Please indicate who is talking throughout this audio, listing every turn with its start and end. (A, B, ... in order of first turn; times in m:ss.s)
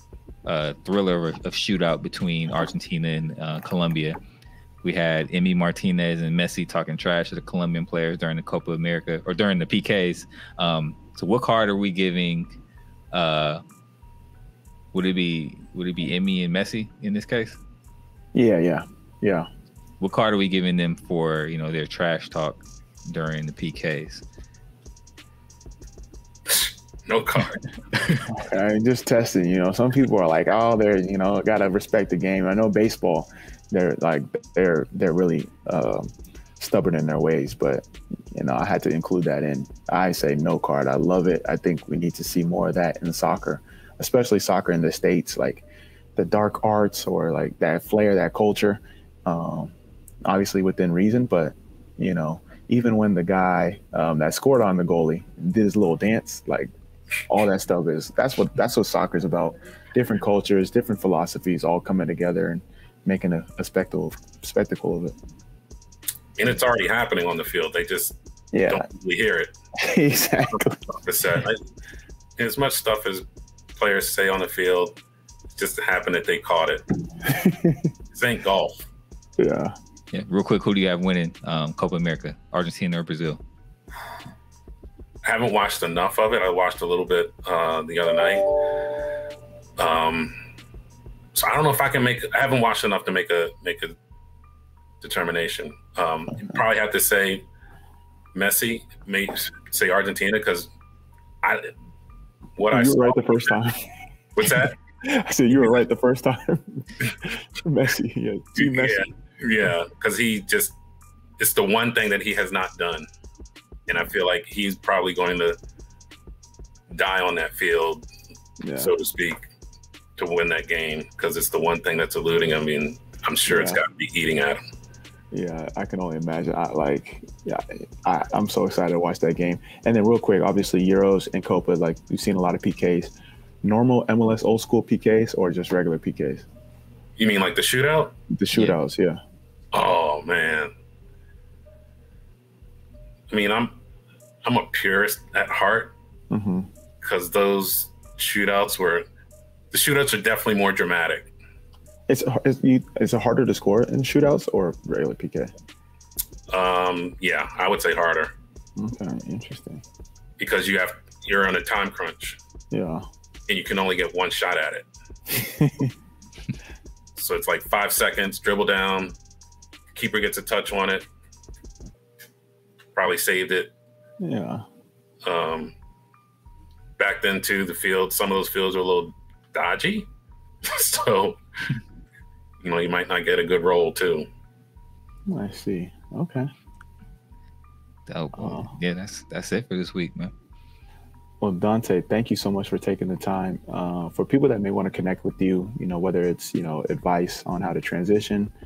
0:00.4-0:04.2 A
0:04.8-0:12.5 A
0:13.1-0:13.6 A
0:14.9-0:17.6 A
0:18.3-0:19.5 B
0:20.0-0:24.2 A
0:26.5-0:27.6 C
0:28.3-0:45.6 B
0:46.2-0:49.7 B
0:50.2-0:56.7 B
0:57.3-1:05.1 B
1:06.4-1:08.2 C
1:08.5-1:08.8 B
1:08.7-1:09.6 C
1:09.8-1:10.8 B
1:10.9-1:11.6 C
1:12.4-1:13.2 C
1:13.8-1:15.0 C
1:15.5-1:16.8 C
1:17.2-1:17.9 B
1:18.1-1:18.8 C
1:19.4-1:19.8 B
1:20.1-1:23.4 A
1:25.2-1:28.9 C
1:29.8-1:30.4 C
1:31.3-1:34.0 C
1:35.0-1:37.4 C
1:38.3-1:40.7 C
1:41.4-1:41.7 C
1:42.6-1:43.6 C
1:42.7-1:49.1 B
1:44.4-1:44.8 C
1:48.6-1:50.8 C
1:51.4-1:53.1 C
1:53.9-1:55.6 C
1:56.9-1:58.0 C
1:58.6-1:58.9 B
1:58.8-1:59.4 C
2:00.2-2:04.6 C
2:03.5-2:03.8 B
2:05.3-2:16.4 B
2:17.2-2:18.1 C
2:18.3-2:19.2 B
2:19.7-2:20.7 C
2:23.3-2:23.7 C
2:24.4-2:25.9 C
2:26.3-2:26.7 B
2:27.0-2:29.0 C
2:29.7-2:31.3 C
2:32.1-2:35.5 B
2:36.5-2:38.3 C
2:38.8-2:39.8 B
2:40.4-2:42.4 C
2:42.7-2:43.1 B
2:43.5-2:44.9 C
2:45.3-2:45.9 B
2:47.1-2:49.2 C
2:49.9-2:51.0 C
2:53.0-2:53.7 C
2:54.2-2:54.6 B
2:55.2-2:55.7 C
2:57.0-3:00.1 C
3:00.6-3:01.4 C
3:02.6-3:04.3 C
3:05.3-3:06.5 B
3:08.1-3:10.3 A
3:08.3-3:08.7 B
3:11.4-3:18.5 B